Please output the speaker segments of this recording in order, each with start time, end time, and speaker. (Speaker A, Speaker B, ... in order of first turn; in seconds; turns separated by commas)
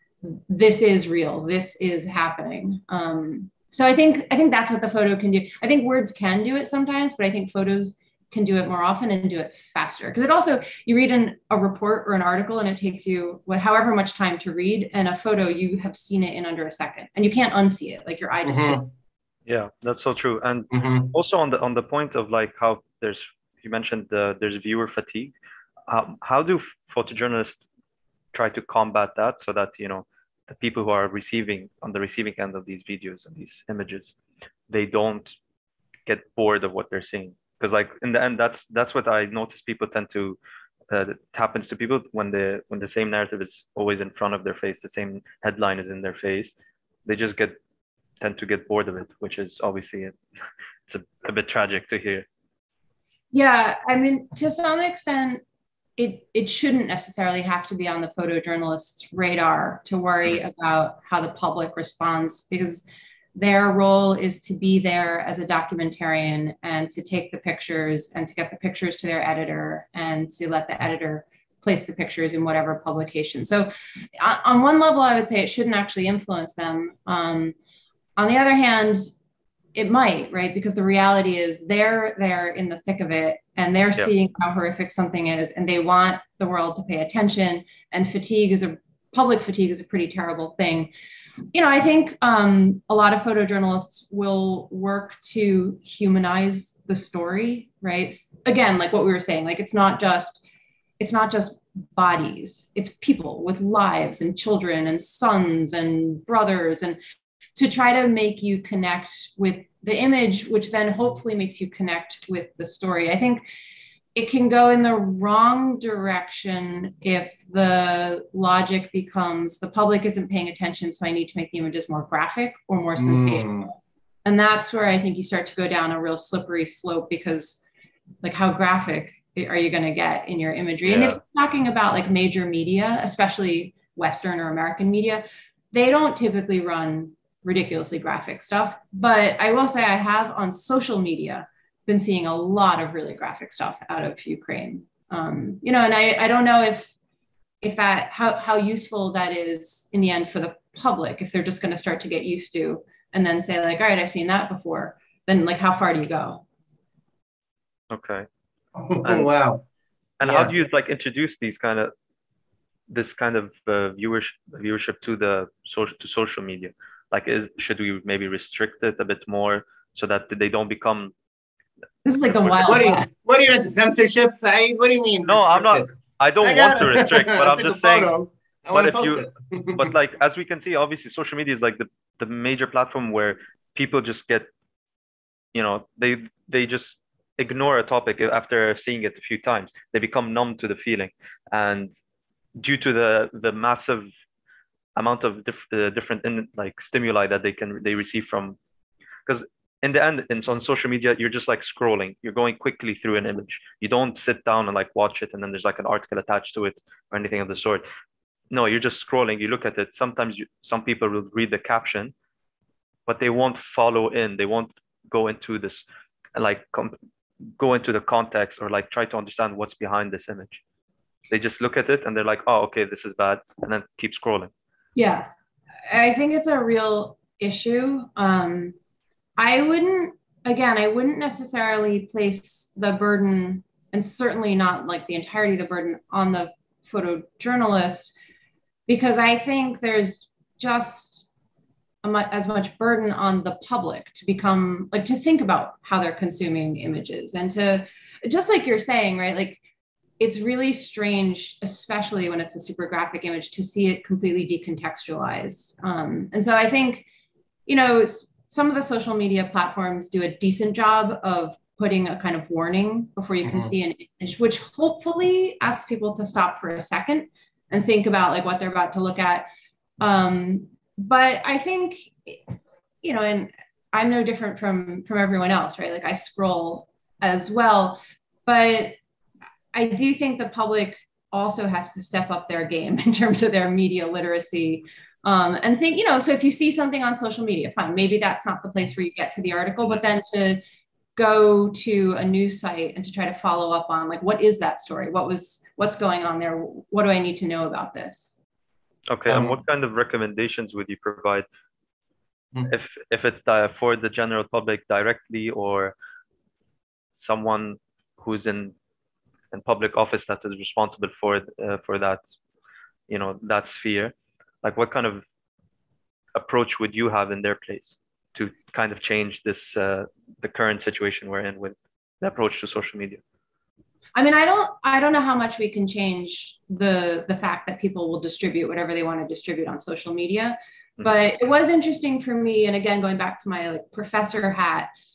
Speaker A: 0.2-18.8, Speaker B: 18.5-18.9, Speaker C: 19.5-25.4, Speaker B: 20.7-21.1, Speaker C: 25.9-27.6, Speaker C: 28.3-34.2, Speaker C: 34.7-35.4, Speaker C: 36.1-40.4, Speaker C: 40.9-47.6, Speaker C: 48.2-50.2, Speaker C: 50.9-52.3, Speaker A: 53.3-55.4, Speaker A: 56.0-77.5, Speaker A: 78.2-79.1, Speaker A: 79.8-90.9, Speaker A: 91.5-100.4, Speaker A: 101.0-107.0, Speaker A: 107.6-113.4, Speaker A: 114.2-127.6, Speaker B: 123.0-123.7, Speaker A: 128.2-146.9, Speaker C: 130.8-131.2, Speaker A: 147.6-156.4, Speaker C: 157.9-158.3, Speaker B: 158.8-159.6, Speaker C: 160.2-161.9, Speaker B: 160.2-160.5, Speaker C: 162.9-171.1, Speaker A: 172.1-173.1, Speaker C: 172.3-172.8, Speaker B: 172.7-179.9, Speaker C: 175.3-178.1, Speaker C: 178.7-184.5, Speaker C: 185.5-191.9, Speaker C: 192.6-194.1, Speaker C: 195.0-198.6, Speaker C: 199.3-207.8, Speaker C: 208.5-212.1, Speaker C: 213.1-216.9, Speaker C: 217.6-220.6, Speaker C: 221.3-224.5, Speaker A: 225.0-225.3, Speaker A: 225.9-228.8, Speaker A: 229.4-238.2, Speaker A: 238.9-241.3, Speaker A: 242.0-249.6, Speaker A: 250.2-257.1, Speaker A: 257.7-269.5, Speaker B: 263.4-263.7, Speaker A: 270.0-272.4, Speaker A: 273.0-279.0, Speaker A: 279.7-290.6, Speaker A: 291.2-298.3, Speaker C: 299.1-301.5, Speaker B: 299.3-299.6, Speaker C: 302.7-305.9, Speaker C: 307.1-308.8, Speaker C: 309.5-312.2, Speaker C: 313.1-315.2, Speaker C: 316.4-323.2, Speaker A: 324.2-334.9